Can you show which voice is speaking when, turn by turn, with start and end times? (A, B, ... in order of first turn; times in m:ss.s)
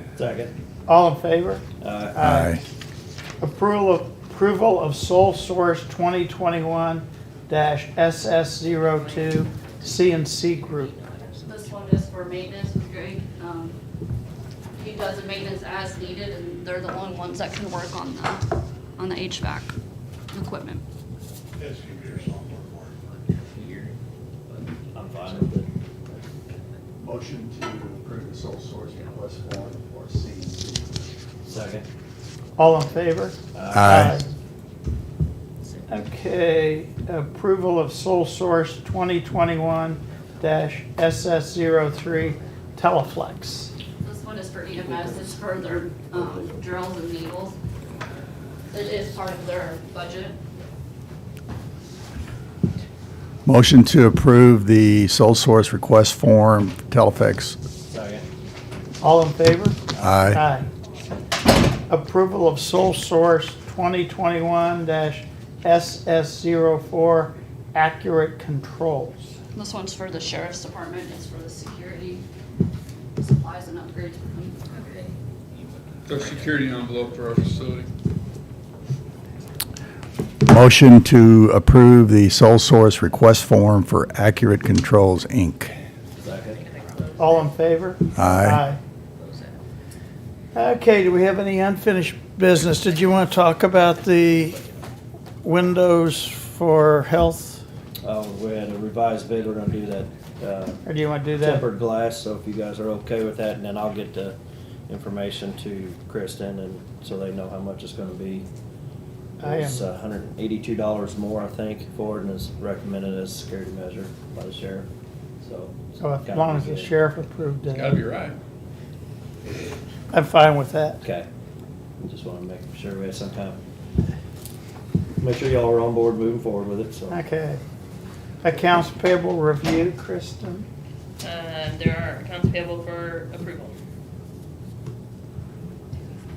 0:00.2-0:00.5 A
0:00.9-0:01.6 B
0:01.8-0:02.2 A
0:02.2-0:02.6 B
0:02.2-0:02.6 C
0:03.4-0:10.9 B
0:11.4-0:13.8 D
0:14.8-0:18.4 D
0:19.0-0:19.7 D
0:20.3-0:20.8 D
0:21.6-0:23.9 E
0:24.9-0:25.7 A
0:27.0-0:30.8 C
0:31.4-0:31.8 A
0:32.6-0:34.2 B
0:33.5-0:34.1 A
0:33.7-0:34.2 C
0:35.9-0:43.7 B
0:44.0-0:47.6 D
0:48.7-0:50.4 D
0:53.4-0:57.6 C
0:57.9-0:58.2 A
0:59.0-0:59.8 B
1:00.0-1:00.4 C
1:00.3-1:00.7 B
1:01.9-1:09.3 B
1:09.6-1:12.2 D
1:13.2-1:14.6 D
1:15.0-1:16.8 E
1:16.1-1:17.9 F
1:20.4-1:25.8 C
1:26.2-1:26.6 A
1:26.5-1:27.5 G
1:27.2-1:28.8 B
1:28.2-1:28.6 C
1:30.5-1:34.6 B
1:35.4-1:37.6 B
1:38.0-1:40.8 A
1:40.8-1:41.6 B
1:41.4-1:44.4 A
1:44.9-1:48.5 A
1:49.4-1:54.9 A
1:49.4-1:49.9 B
1:55.4-1:57.0 A
1:56.0-1:58.1 B
1:57.7-1:58.4 F
2:00.1-2:01.0 B
2:01.0-2:01.3 A
2:02.0-2:03.6 A
2:05.2-2:07.2 A
2:07.1-2:07.6 B
2:08.4-2:10.7 B
2:11.2-2:13.8 G